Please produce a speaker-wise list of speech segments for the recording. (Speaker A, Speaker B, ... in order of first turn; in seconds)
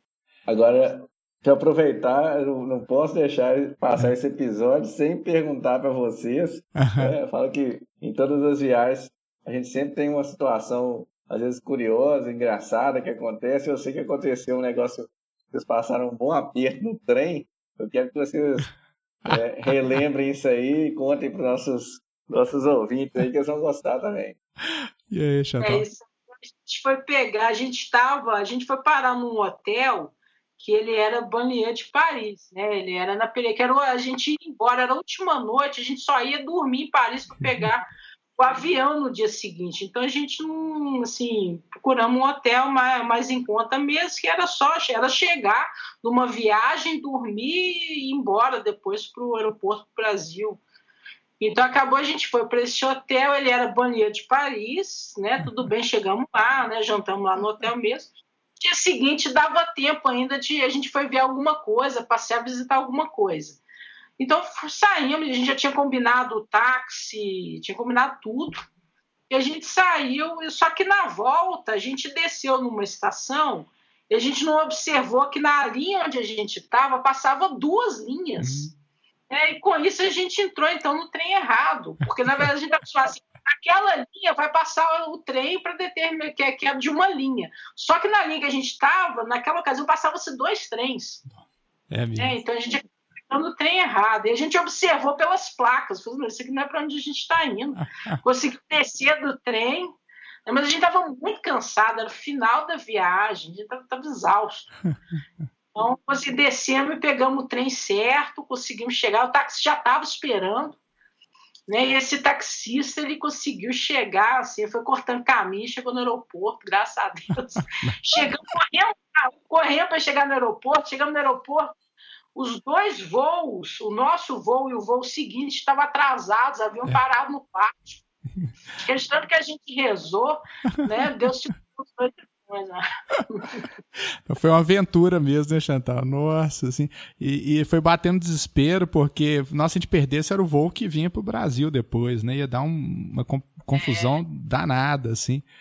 Speaker A: 0.5-18.7, 19.3-24.4
Speaker B: 6.8-7.1, 24.7-25.9, 78.4-78.7, 91.9-92.4, 117.8-118.3, 134.3-145.5
Speaker C: 25.6-50.6, 51.4-63.6, 64.2-68.7, 69.3-78.7, 79.3-91.2, 92.2-100.0, 100.5-104.7, 105.8-110.8, 111.7-121.7, 122.3-128.0, 128.8-133.7, 143.7-144.2